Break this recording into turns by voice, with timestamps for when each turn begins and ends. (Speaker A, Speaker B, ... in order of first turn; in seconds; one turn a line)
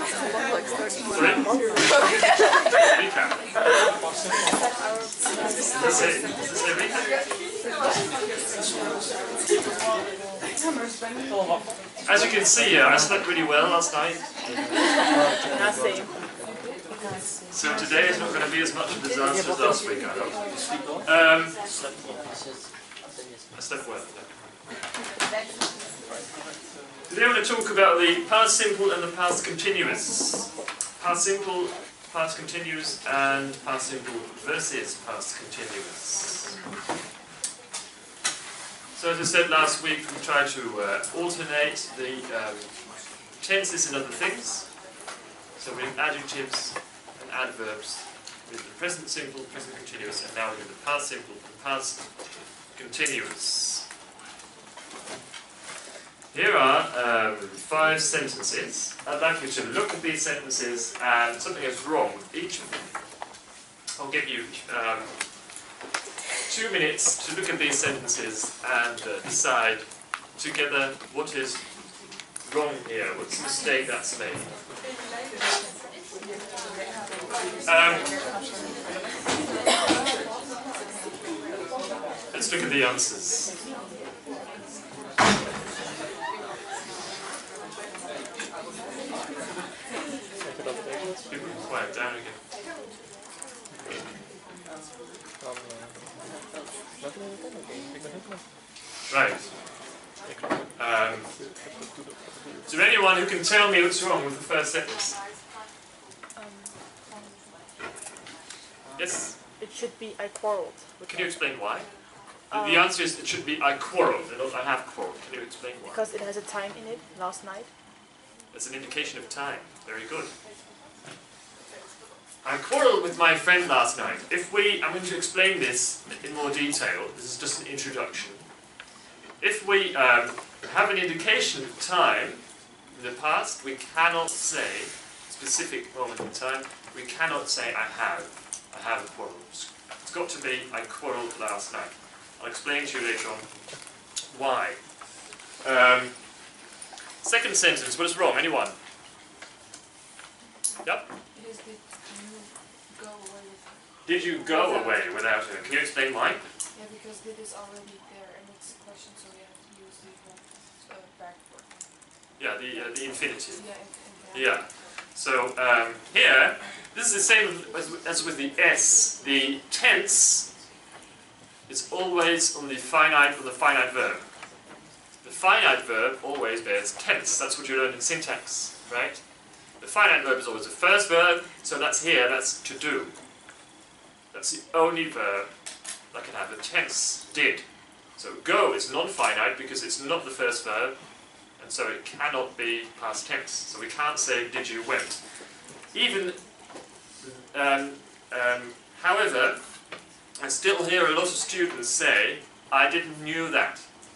Speaker A: 1.1-1.5
Speaker B: 1.4-2.0
Speaker A: 2.9-3.4
Speaker A: 5.7-7.0
Speaker A: 12.1-14.3
Speaker B: 15.5-16.1
Speaker A: 17.5-20.4
Speaker A: 21.0-21.6
Speaker A: 23.5-24.4
Speaker A: 27.1-36.5
Speaker A: 39.0-42.7
Speaker A: 43.4-44.7
Speaker A: 45.6-52.0
Speaker A: 52.7-53.9
Speaker A: 56.3-62.7
Speaker A: 64.0-65.1
Speaker A: 66.5-69.8
Speaker A: 70.4-71.6
Speaker A: 72.4-74.5
Speaker A: 77.6-78.1
Speaker A: 82.3-83.5
Speaker A: 91.3-92.4
Speaker A: 99.1-99.5
Speaker A: 100.8-101.3
Speaker A: 102.7-105.2
Speaker C: 106.7-107.2
Speaker A: 109.0-109.3
Speaker B: 109.6-111.0
Speaker A: 111.0-111.9
Speaker B: 112.5-112.9
Speaker A: 112.5-116.0
Speaker B: 115.9-117.7
Speaker A: 118.5-120.3
Speaker A: 122.4-128.4
Speaker A: 129.4-132.4
Speaker A: 132.9-143.5
Speaker A: 144.3-144.8
Speaker A: 145.6-146.1
Speaker A: 147.2-148.8
Speaker C: 151.3-155.0
Speaker A: 154.1-156.4
Speaker C: 156.7-161.9
Speaker A: 162.4-163.6
Speaker C: 163.6-164.6
Speaker A: 164.3-170.5
Speaker A: 171.7-174.2
Speaker A: 175.2-179.2
Speaker A: 179.8-183.1
Speaker A: 184.3-185.5
Speaker A: 186.1-187.6
Speaker A: 188.2-191.0
Speaker A: 191.6-195.2
Speaker A: 195.9-196.4
Speaker A: 197.2-199.6
Speaker A: 200.4-203.8